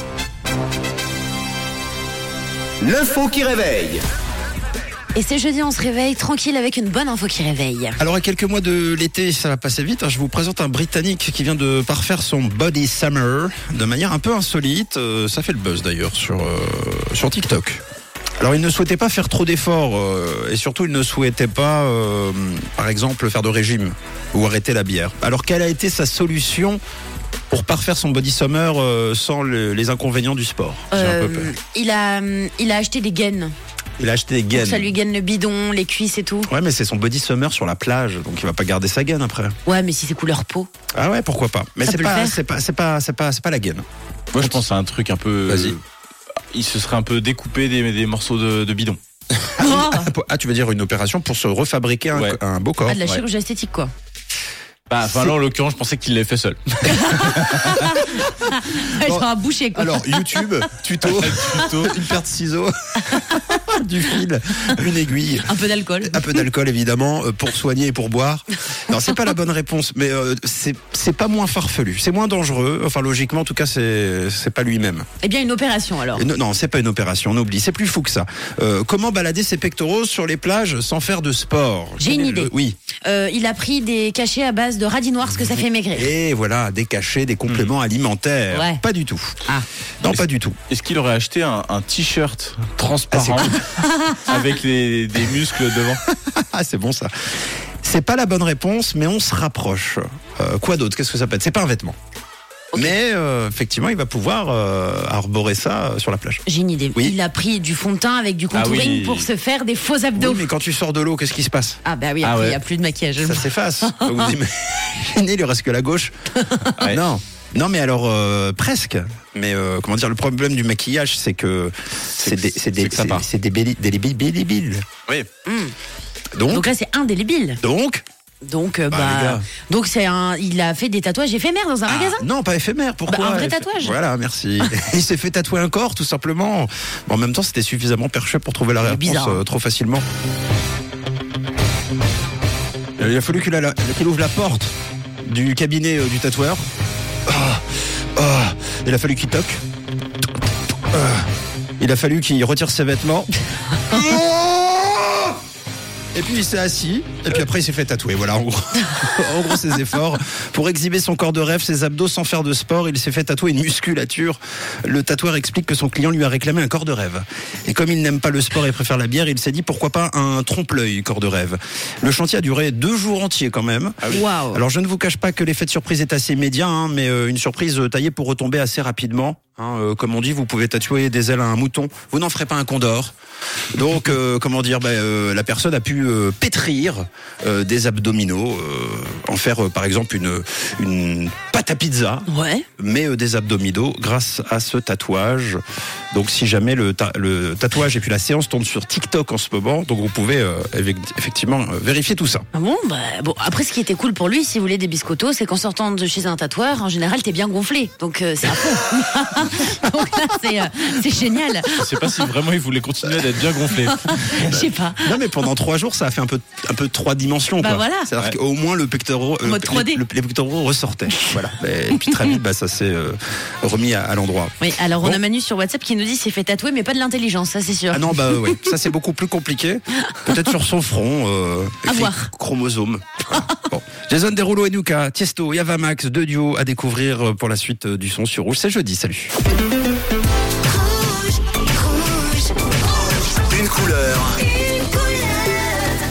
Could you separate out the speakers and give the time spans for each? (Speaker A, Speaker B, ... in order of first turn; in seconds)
Speaker A: 2.8-4.0, 243.3-244.5
Speaker B: 5.1-8.0, 30.9-33.5, 34.5-36.5, 39.7-40.7, 41.9-42.4, 49.6-50.1, 52.9-53.9, 56.9-60.5, 63.2-63.6, 65.5-66.5, 75.2-76.2, 82.0-82.5, 83.0-86.1, 88.5-88.8, 93.8-94.2, 106.5-110.5, 111.8-114.3, 125.5-125.8, 126.5-127.6, 128.4-132.3, 133.1-134.0, 134.6-134.9, 138.8-139.4, 174.1-174.6, 192.3-192.7, 202.5-212.3, 213.7-215.2, 217.6-218.1, 219.4-220.0, 224.6-228.6, 231.8-232.3, 244.8-245.6
Speaker C: 8.0-17.8, 18.4-26.8, 27.5-31.5, 34.0-34.9, 36.5-39.6, 40.9-43.8, 44.4-44.6, 45.5-45.8, 49.3-53.0, 55.0-55.3, 57.2-65.5, 66.0-75.1, 76.1-82.8, 85.9-90.6, 93.1-93.6, 96.1-97.1, 97.8-102.0, 102.7-106.4, 110.2-111.8, 113.2-116.1, 116.8-124.9, 126.3-126.7, 127.6-128.0, 128.9-129.4, 131.9-140.1, 143.0-146.7, 147.3-149.6, 150.9-155.4, 156.1-183.1, 183.7-192.3, 192.8-195.6, 196.1-202.4, 214.3-225.2, 227.9-239.3
Speaker D: 44.3-45.8, 46.5-49.0, 54.9-57.9, 61.1-62.0, 90.7-96.0, 108.5-109.3, 112.2-112.6, 116.8-117.0, 122.2-123.2, 211.8-214.6